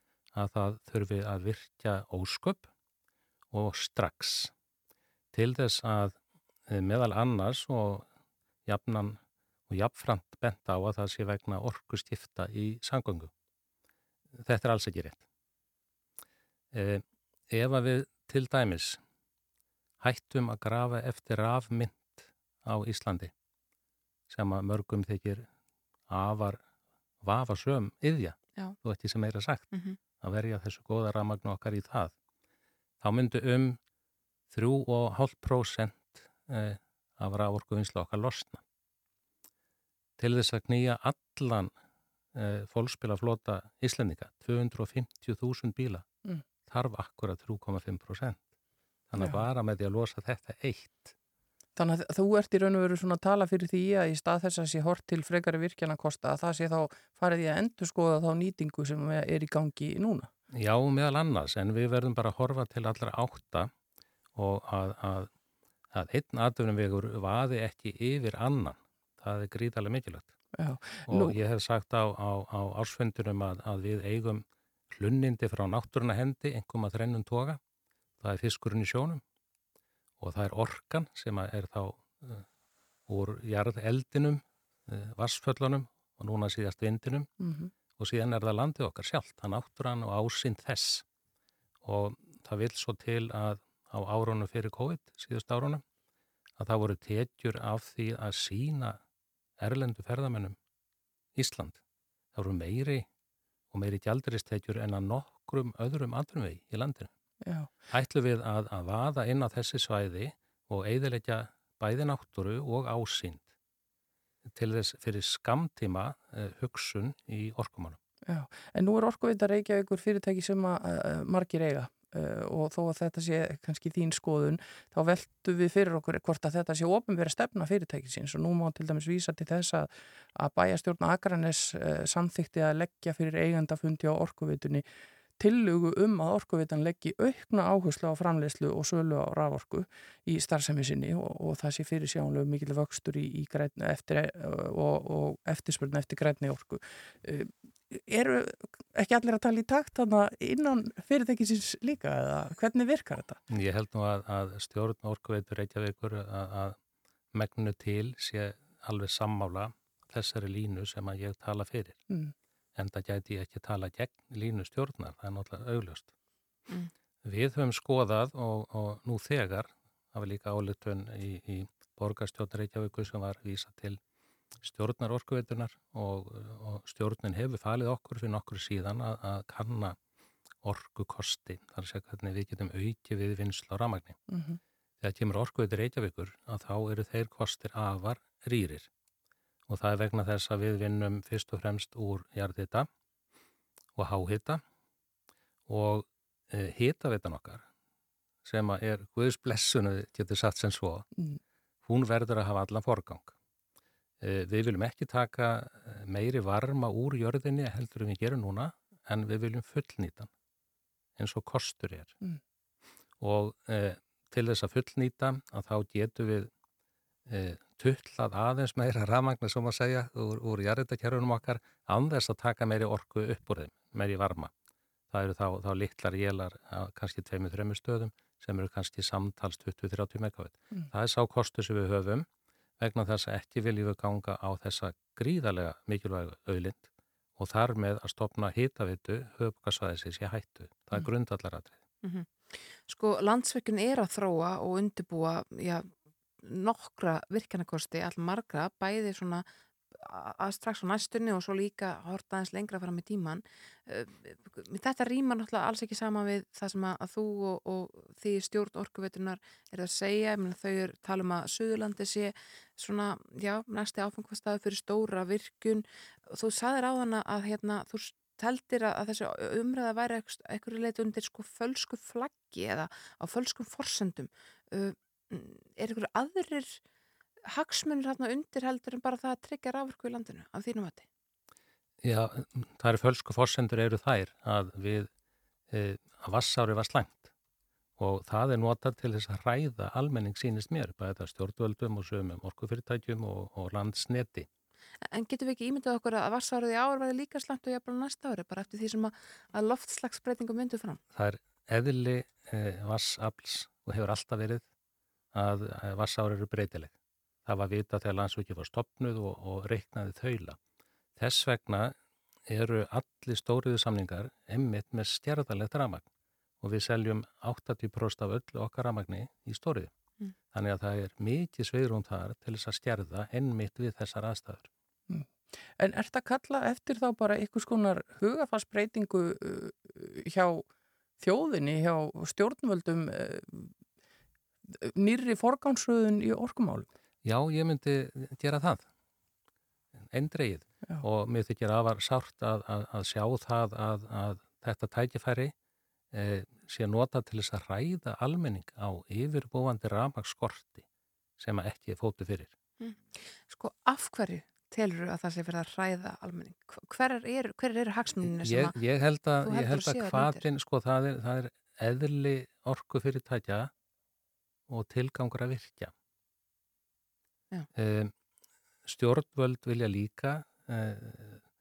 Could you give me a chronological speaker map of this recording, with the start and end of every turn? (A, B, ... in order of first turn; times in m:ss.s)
0:00.3-0:02.7 A
0:03.5-0:04.5 A
0:05.3-0:06.2 A
0:06.7-0:08.1 A
0:08.6-0:13.3 A
0:14.4-0:15.2 A
0:16.7-0:19.0 A
0:20.0-0:23.3 A
0:24.3-0:25.5 A
0:26.1-0:26.6 A
0:27.2-0:32.1 A
0:29.7-0:30.0 B
0:33.0-0:33.8 A
0:34.5-0:38.6 A
0:40.2-0:41.7 A
0:42.3-0:46.1 A
0:46.6-0:48.4 A
0:49.1-0:51.1 A
0:51.8-1:00.3 C
1:00.5-1:03.7 A
1:04.3-1:05.3 A
1:05.9-1:10.3 A
1:10.6-1:11.4 C
1:11.1-1:17.6 A
1:18.2-1:19.2 A
1:20.2-1:22.4 A
1:23.1-1:27.3 A
1:27.4-1:27.7 C
1:28.0-1:31.0 A
1:31.8-1:35.8 A
1:36.6-1:39.0 A
1:39.6-1:40.6 A
1:41.4-1:41.8 A
1:42.3-1:43.0 A
1:43.7-1:47.1 A
1:47.4-1:47.7 C
1:47.9-1:53.4 A
1:54.5-1:58.0 A
1:58.3-2:14.8 C
2:15.4-2:33.4 C
2:33.5-2:36.8 A
2:37.3-2:42.0 A
2:42.7-2:46.1 A
2:47.2-2:54.0 A
2:54.6-3:00.0 A
3:00.6-3:04.2 A
3:04.3-3:04.6 C
3:05.0-3:08.9 A
3:09.7-3:12.9 A
3:14.0-3:14.6 A
3:15.7-3:17.6 A
3:18.4-3:21.0 A
3:21.8-3:23.3 A
3:24.2-3:30.3 A
3:31.2-3:32.1 A
3:33.2-3:36.5 A
3:37.3-3:44.5 A
3:45.1-3:52.3 A
3:52.8-3:56.9 A
3:57.4-4:01.8 A
4:02.0-4:05.9 B
4:06.4-4:36.8 B
4:37.5-4:41.0 B
4:42.0-4:45.1 A
4:45.7-4:47.3 A
4:48.0-4:54.5 A
4:55.1-5:01.0 B
5:01.1-5:04.6 A
5:05.3-5:06.9 A
5:07.4-5:10.6 A
5:11.2-5:12.0 A
5:12.5-5:16.0 A
5:16.6-5:19.9 A
5:20.5-5:24.7 A
5:25.1-5:30.7 C
5:31.2-5:33.7 C
5:34.7-5:36.9 C
5:37.2-5:38.8 A
5:40.0-5:45.5 A
5:46.1-5:50.8 A
5:51.4-5:52.5 A
5:52.8-5:58.8 B
5:58.2-6:03.7 A
5:59.4-6:00.4 B
6:04.7-6:05.9 A
6:07.8-6:08.1 A
6:08.8-6:11.4 A